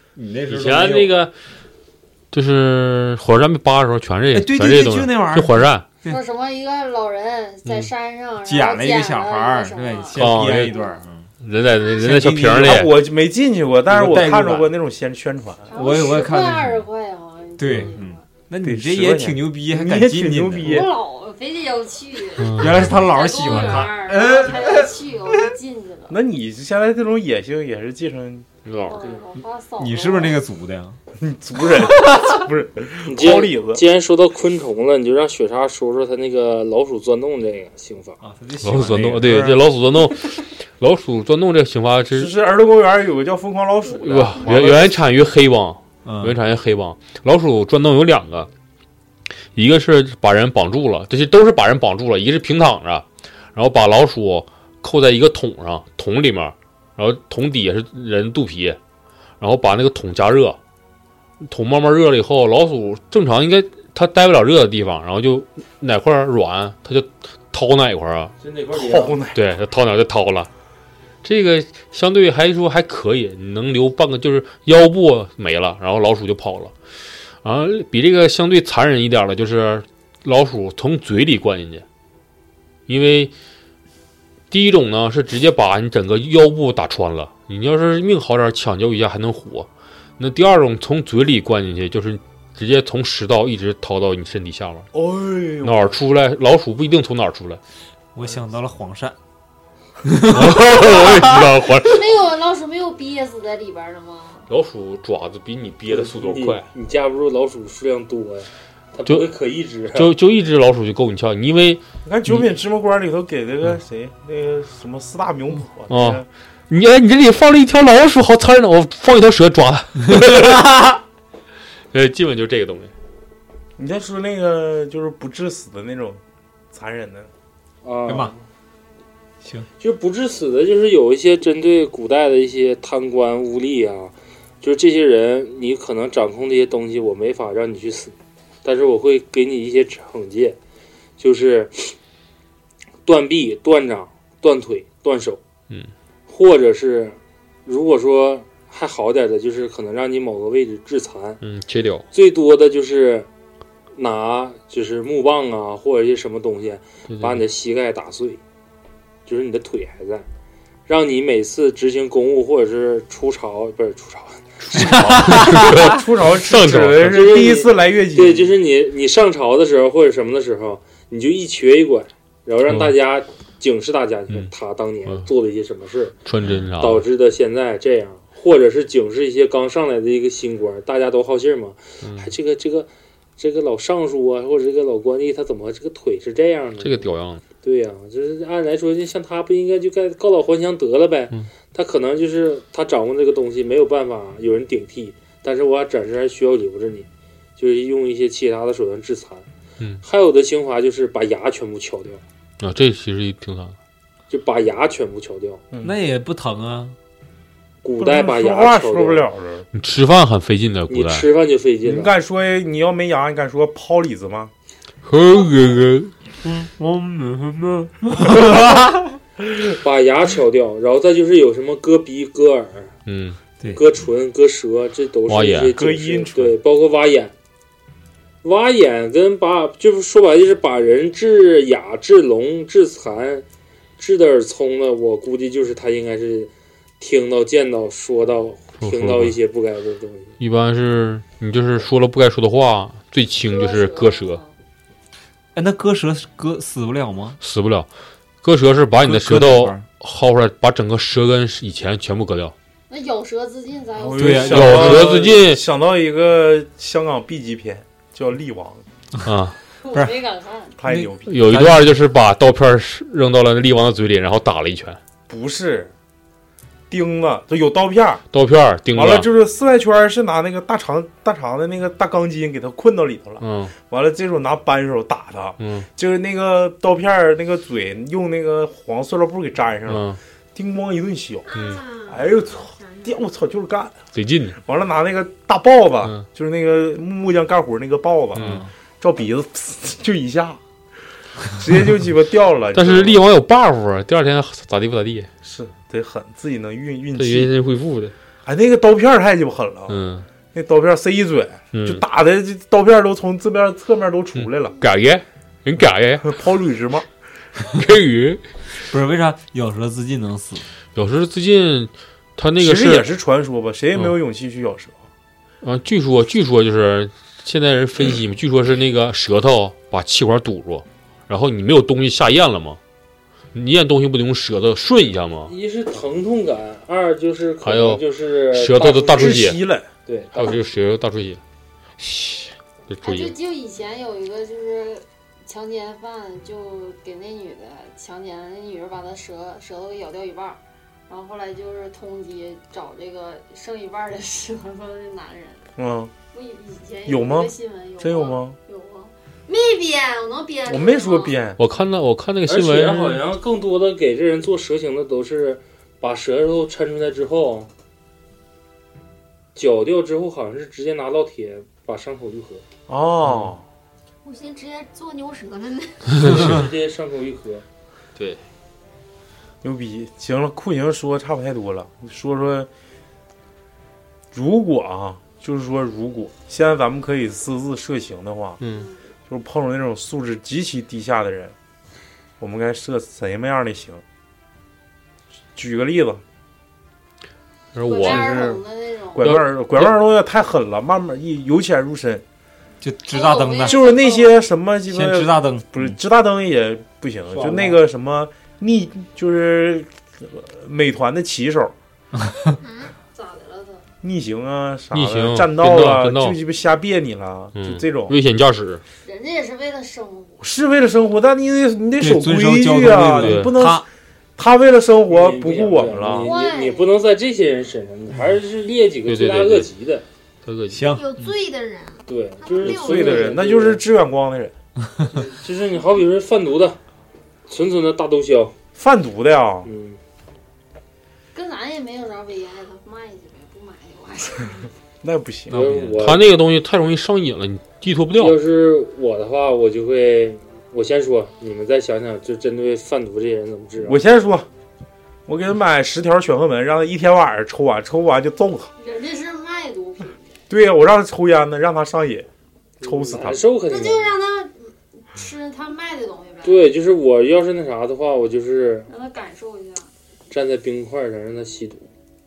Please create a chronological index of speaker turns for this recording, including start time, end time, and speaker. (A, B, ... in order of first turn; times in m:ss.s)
0:00.2-0:01.3 A
0:00.5-0:01.3 B
0:02.3-0:05.8 B
0:04.3-0:06.2 A
0:06.0-0:11.0 C
0:08.4-0:11.3 A
0:10.2-0:10.8 B
0:11.4-0:13.0 B
0:11.9-0:12.9 A
0:12.6-0:15.7 D
0:13.9-0:14.8 A
0:15.7-0:18.3 C
0:15.7-0:16.8 A
0:17.6-0:20.9 A
0:18.6-0:21.0 D
0:20.6-0:26.2 C
0:22.4-0:23.0 B
0:22.6-0:25.5 A
0:26.1-0:28.5 D
0:28.6-0:29.0 B
0:28.8-0:30.4 C
0:29.8-0:31.0 A
0:31.2-0:33.8 D
0:33.1-0:38.2 E
0:38.2-0:39.6 A
0:38.6-0:42.3 B
0:42.1-0:45.0 D
0:43.9-0:48.5 B
0:46.0-0:46.4 A
0:49.6-0:58.8 B
0:59.4-1:00.6 B
1:01.4-1:08.4 B
1:08.4-1:09.2 E
1:08.7-1:09.4 D
1:09.3-1:10.5 B
1:11.2-1:16.7 B
1:17.4-1:21.8 B
1:22.9-1:23.3 B
1:24.5-1:29.7 B
1:30.2-1:34.9 B
1:34.9-1:35.9 D
1:35.6-1:37.6 B
1:38.2-1:39.2 A
1:40.0-1:41.5 A
1:40.3-1:42.2 B
1:41.8-1:44.5 C
1:44.5-1:46.7 B
1:45.9-1:50.1 E
1:49.9-1:52.5 B
1:52.0-1:56.3 D
1:55.9-2:00.9 B
2:00.1-2:01.0 A
2:01.9-2:02.9 B
2:03.8-2:06.2 D
2:06.7-2:07.3 D
2:07.8-2:08.4 E
2:08.1-2:08.3 A
2:09.8-2:20.6 E
2:21.2-2:22.0 E
2:23.1-2:25.4 E
2:26.3-2:31.4 E
2:31.4-2:32.1 B
2:32.1-2:33.3 E
2:34.0-2:38.4 E
2:37.1-2:37.4 B
2:39.3-2:40.3 E
2:40.9-2:45.0 E
2:44.6-2:47.3 B
2:45.0-2:45.8 A
2:45.5-2:48.5 D
2:47.0-2:56.2 E
2:56.2-2:57.1 B
2:56.8-3:07.1 E
3:02.0-3:02.3 B
3:06.8-3:07.4 B
3:07.6-3:19.5 E
3:20.0-3:22.2 E
3:22.6-3:23.8 B
3:24.3-3:25.6 E
3:25.7-3:26.0 D
3:25.8-3:27.0 A
3:27.8-3:29.2 E
3:28.0-3:29.7 D
3:29.7-3:31.3 B
3:30.9-3:32.1 E
3:31.8-3:34.5 D
3:35.0-3:36.1 B
3:36.4-3:39.1 A
3:39.8-3:42.9 E
3:43.1-3:43.4 B
3:43.7-3:47.3 E
3:45.3-3:45.8 B
3:45.7-3:46.6 D
3:48.4-3:53.4 E
3:54.0-4:00.4 E
3:58.8-3:59.4 B
4:00.4-4:04.4 B
4:03.4-4:04.5 C
4:05.6-4:07.4 A
4:07.4-4:07.9 B
4:08.4-4:12.5 B
4:09.0-4:09.8 A
4:12.9-4:14.7 C
4:14.0-4:18.8 D
4:14.2-4:15.2 A
4:14.4-4:15.6 B
4:19.2-4:19.6 B
4:19.8-4:20.8 C
4:20.8-4:21.4 D
4:20.8-4:22.0 A
4:21.3-4:25.0 B
4:25.3-4:25.9 D
4:26.9-4:28.2 D
4:28.3-4:29.3 B
4:28.9-4:44.0 D
4:33.4-4:33.7 B
4:35.6-4:35.9 B
4:39.9-4:40.2 B
4:41.5-4:43.2 F
4:41.5-4:41.8 B
4:44.2-4:44.6 B
4:44.6-4:50.6 D
4:48.4-4:48.6 B
4:48.4-4:48.7 A
4:51.5-4:53.2 D
4:52.7-4:55.3 B
4:55.4-4:57.5 D
4:57.2-4:58.1 B
4:58.5-5:00.0 D
4:59.9-5:00.3 B
5:00.5-5:04.8 D
5:01.7-5:02.0 B
5:04.4-5:06.4 B
5:06.2-5:07.1 D
5:07.7-5:08.4 B
5:08.9-5:10.7 A
5:11.0-5:13.1 B
5:12.6-5:15.0 D
5:15.6-5:22.8 B
5:23.5-5:25.5 B
5:25.5-5:29.5 E
5:27.6-5:29.6 B
5:29.1-5:29.9 D
5:30.1-5:30.6 E
5:30.4-5:31.4 B
5:32.0-5:33.3 B
5:33.0-5:45.7 C
5:45.8-5:46.1 D
5:46.3-5:51.4 C
5:47.1-5:48.6 D
5:50.7-5:51.6 D
5:51.6-5:53.2 B
5:52.5-5:57.7 E
5:59.6-6:02.6 E
6:02.9-6:03.6 D
6:04.2-6:06.3 F
6:06.2-6:06.6 B
6:06.2-6:07.6 E
6:08.2-6:08.4 B
6:09.6-6:12.7 D
6:14.3-6:18.6 D
6:18.6-6:18.9 B
6:18.7-6:19.0 C
6:19.3-6:21.6 D
6:22.4-6:24.0 D
6:25.6-6:26.2 D
6:27.7-6:28.6 B
6:27.8-6:29.4 C
6:28.0-6:28.6 D
6:29.2-6:32.2 D
6:29.2-6:30.0 B
6:32.8-6:33.9 A
6:33.1-6:34.4 C
6:33.6-6:41.7 D
6:34.9-6:36.0 A
6:37.4-6:37.8 E
6:42.6-6:42.9 F
6:43.1-6:43.9 C
6:44.0-6:48.2 D
6:44.9-6:46.4 B
6:47.6-6:48.8 B
6:49.0-6:50.4 C
6:50.4-6:53.9 D
6:52.0-6:53.9 A
6:53.0-6:53.5 B
6:54.4-6:56.3 D
6:55.1-7:00.0 E
6:56.2-6:56.9 C
6:59.1-6:59.7 B
7:00.4-7:00.8 B
7:00.7-7:01.3 A
7:00.8-7:03.5 F
7:02.1-7:03.8 E
7:02.6-7:04.5 D
7:05.1-7:06.8 E
7:07.5-7:08.5 E
7:08.8-7:09.7 D
7:09.6-7:10.0 E
7:11.3-7:14.7 C
7:15.0-7:15.6 D
7:15.5-7:16.0 A
7:15.5-7:16.3 E
7:16.0-7:18.4 B
7:18.2-7:24.0 E
7:23.8-7:24.5 D
7:25.3-7:28.7 D
7:28.8-7:30.3 C
7:30.5-7:32.3 D
7:32.8-7:34.2 E
7:32.8-7:33.4 D
7:33.7-7:36.7 C
7:36.4-7:38.9 E
7:38.9-7:39.9 C
7:40.3-7:41.9 E